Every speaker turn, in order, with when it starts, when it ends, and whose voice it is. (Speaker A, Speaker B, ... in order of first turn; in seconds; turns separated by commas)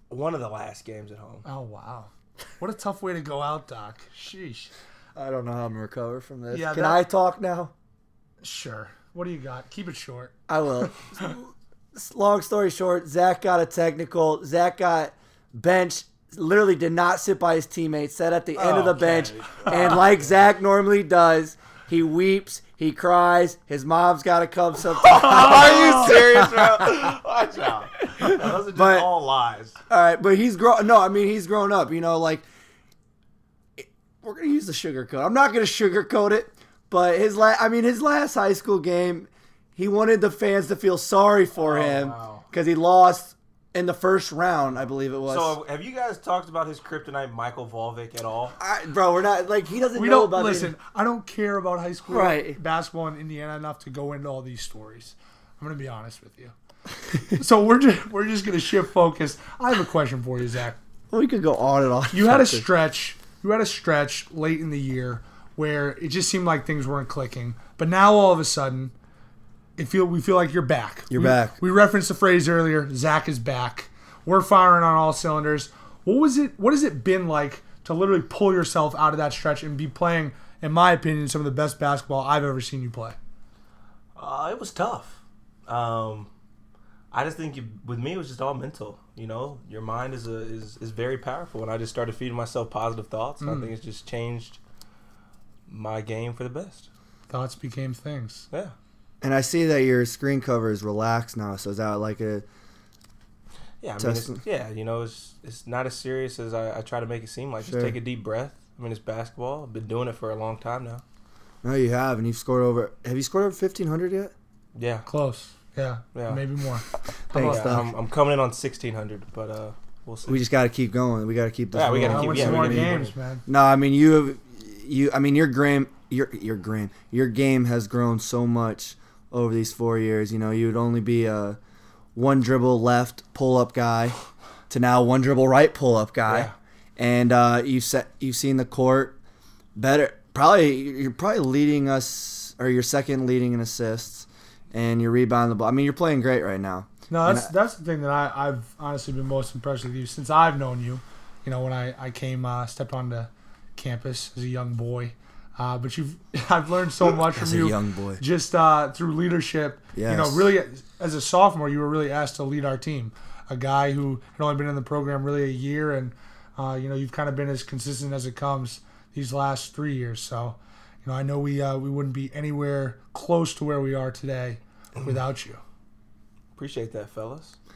Speaker A: 0.1-1.4, Speaker B: 1.4-4.7, Speaker C: 5.2-7.7, Speaker B: 6.5-7.0, Speaker B: 8.4-10.3, Speaker C: 10.5-27.1, Speaker A: 18.6-20.3, Speaker A: 24.9-29.8, Speaker B: 25.2-26.1, Speaker C: 28.0-29.1, Speaker C: 29.9-32.5, Speaker C: 33.8-45.6, Speaker A: 41.6-42.5, Speaker A: 45.3-48.6, Speaker C: 48.6-50.7, Speaker B: 50.0-56.5, Speaker C: 52.1-52.6, Speaker B: 57.3-60.8, Speaker C: 61.1-62.7, Speaker B: 62.1-68.9, Speaker B: 69.8-83.2, Speaker C: 71.1-71.6, Speaker A: 84.2-86.3, Speaker A: 87.1-94.6, Speaker B: 93.4-93.7, Speaker A: 95.7-96.9, Speaker B: 97.3-98.5, Speaker C: 99.2-102.5, Speaker A: 103.8-111.0, Speaker C: 104.0-104.4, Speaker C: 107.6-108.0, Speaker C: 111.6-114.3, Speaker A: 114.8-115.1, Speaker B: 115.1-117.9, Speaker A: 116.2-116.4, Speaker C: 117.3-117.9, Speaker A: 117.3-120.4, Speaker C: 120.3-131.6, Speaker A: 121.7-123.1, Speaker B: 122.0-123.4, Speaker C: 132.2-134.2, Speaker C: 134.7-139.2, Speaker A: 136.3-136.5, Speaker C: 139.8-147.5, Speaker B: 147.1-175.6, Speaker C: 157.1-158.2, Speaker C: 159.9-160.5, Speaker A: 176.6-177.6